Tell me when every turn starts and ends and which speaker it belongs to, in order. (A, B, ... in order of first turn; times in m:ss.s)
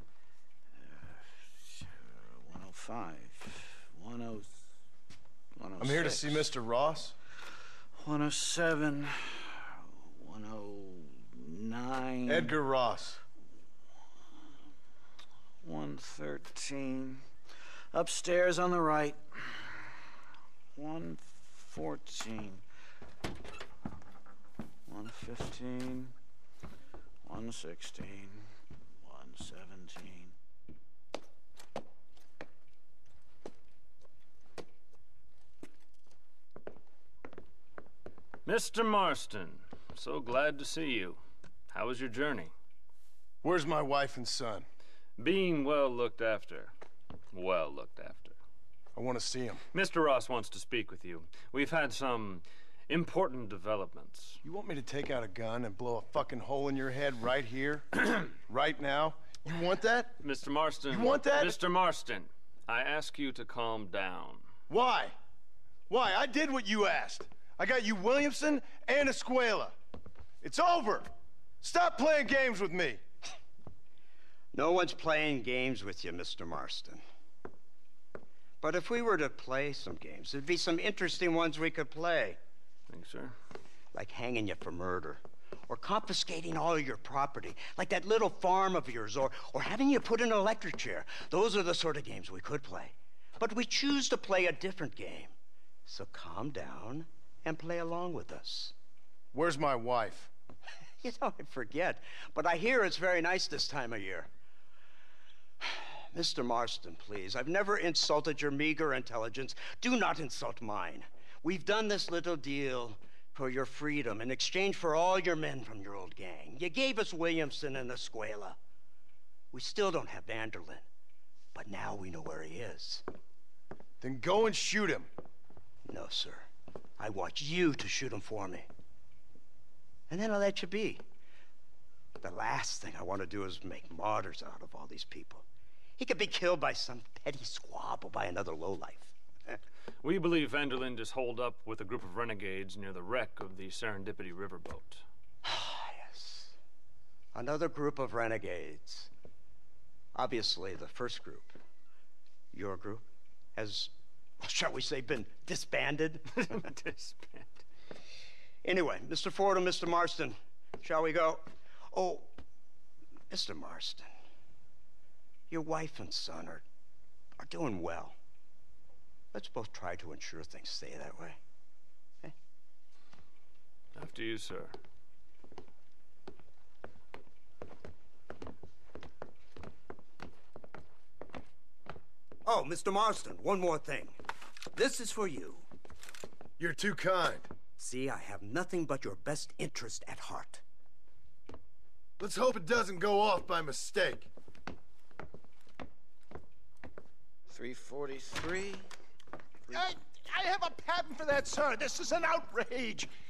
0:00.8-0:04.5 A
0:05.6-0:06.5 A
0:05.8-0:07.1 B
0:08.0-0:12.6 A
0:12.3-0:13.2 B
0:15.6-0:17.2 A
0:17.9-0:20.0 A
0:20.8-0:22.6 A
0:24.9-0:26.1 A
0:27.2-0:28.4 A
0:29.0-0:30.3 A
0:38.4-0:41.2 C
0:41.7-0:42.5 C
0:43.4-0:44.6 B
0:45.2-0:46.7 C
0:47.3-0:48.4 C
0:49.0-0:49.6 B
0:49.7-0:54.4 C
0:54.4-1:00.2 B
1:00.2-1:04.4 C
1:00.9-1:01.6 B
1:04.7-1:05.1 B
1:05.9-1:09.7 B
1:10.4-1:11.1 B
1:11.6-1:13.0 B
1:14.5-1:17.0 D
1:18.6-1:22.4 D
1:22.9-1:23.3 C
1:23.9-1:35.3 D
1:35.8-1:38.7 D
1:39.3-1:40.3 B
1:41.0-1:44.3 D
1:45.6-1:58.6 D
1:59.5-2:00.8 D
2:01.5-2:03.0 D
2:04.0-2:05.1 B
2:05.9-2:06.5 D
2:07.0-2:08.7 D
2:10.1-2:11.0 D
2:12.2-2:15.4 D
2:16.0-2:19.1 D
2:20.0-2:25.0 C
2:25.4-2:26.5 D
2:27.3-2:29.1 D
2:30.1-2:31.6 D
2:32.5-2:36.6 D
2:36.4-2:37.6 C
2:38.6-2:42.3 D
2:43.3-2:44.1 D
2:45.5-2:46.6 D
2:47.4-2:48.2 D
2:49.3-2:51.4 D
2:53.9-2:54.7 C
3:02.4-3:04.2 D
3:04.7-3:05.6 D
3:06.6-3:07.5 B
3:07.8-3:10.6 D
3:12.2-3:14.3 B
3:17.5-3:18.9 A
3:19.7-3:23.1 E